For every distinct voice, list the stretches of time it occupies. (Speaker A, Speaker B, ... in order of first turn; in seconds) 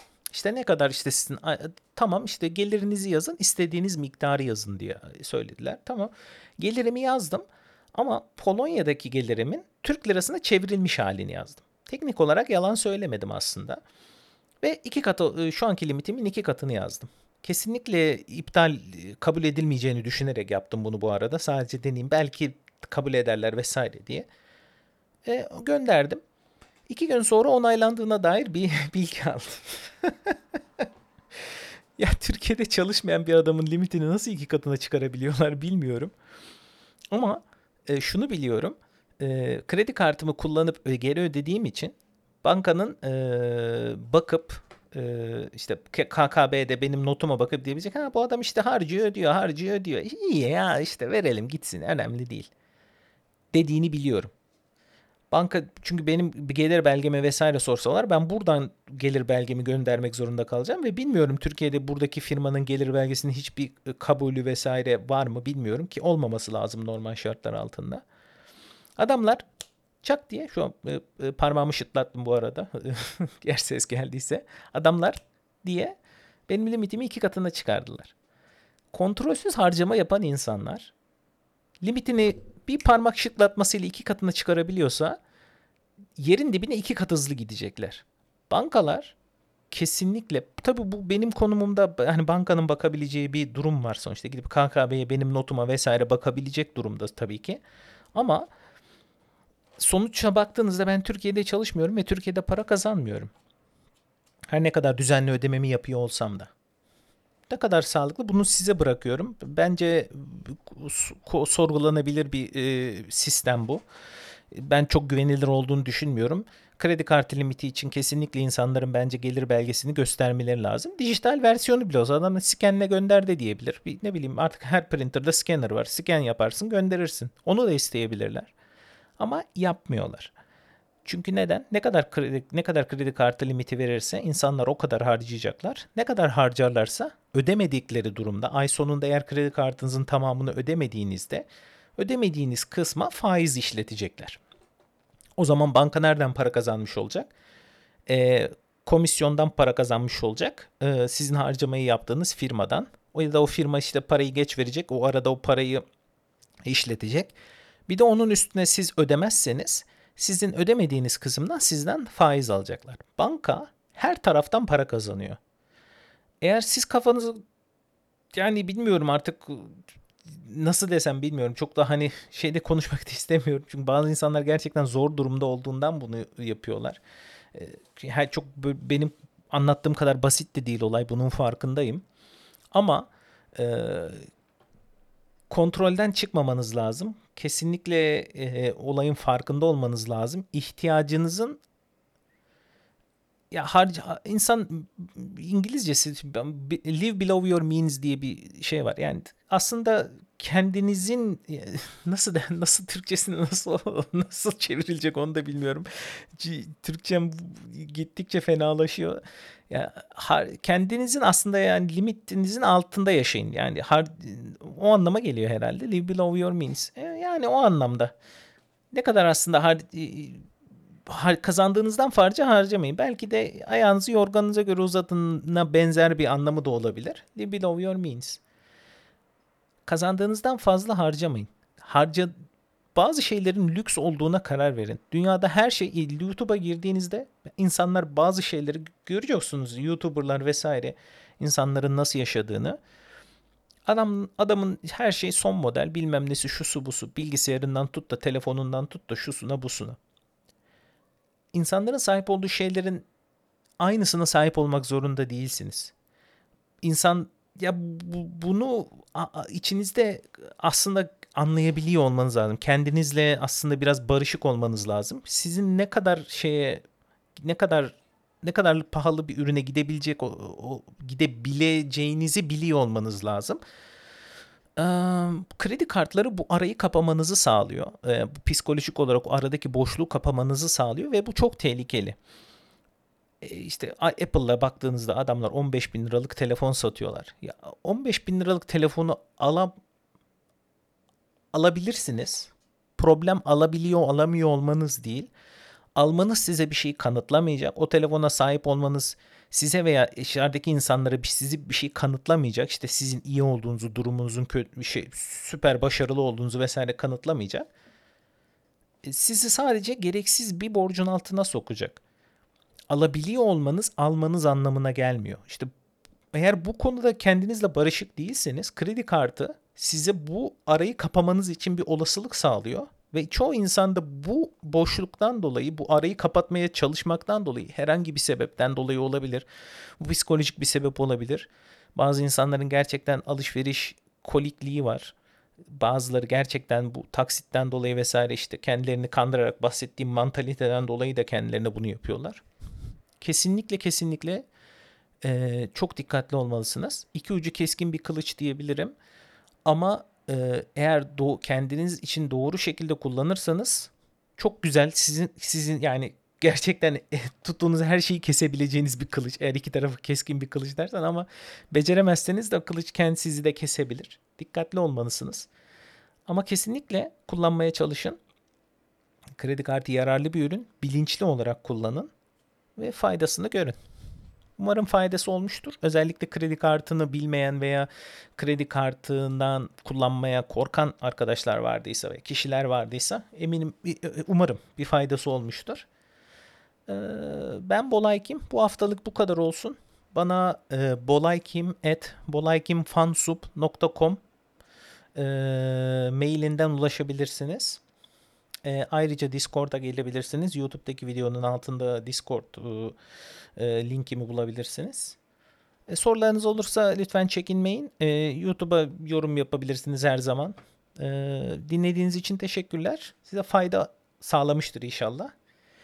Speaker A: 0.3-13.8, 14.6-24.3, 25.2-26.2, 26.9-30.8, 32.0-36.1, 37.1-52.5, 53.5-54.3, 55.3-68.0, 69.0-69.4, 70.0-76.0, 76.5-78.1, 78.9-80.9, 81.8-85.2, 86.2-89.2, 89.7-97.6, 98.1-98.5, 99.8-103.3, 104.5-106.5, 107.5-113.8, 114.5-128.5, 129.2-130.3, 131.1-144.4, 145.4-147.3, 148.1-155.8, 156.6-157.3, 157.9-165.4, 166.4-167.4, 168.3-177.0, 177.5-182.0, 182.7-184.3, 185.5-191.6, 193.5-218.1, 218.9-220.5, 221.1-228.4, 229.9-232.3, 232.9-242.8, 243.9-250.0, 251.5-253.1, 253.8-255.9, 256.8-266.8, 267.4-273.6, 274.8-282.2, 283.4-289.7, 291.5-295.3, 295.9-307.7, 309.0-312.0, 312.9-315.7, 316.3-329.5, 330.0-335.1, 335.7-342.4, 343.2-344.4, 345.2-348.9, 349.7-365.5, 366.3-368.2, 369.4-372.1, 372.8-373.8, 374.6-385.9, 386.9-394.2, 395.2-397.8, 398.6-403.0, 403.6-405.2, 405.9-415.3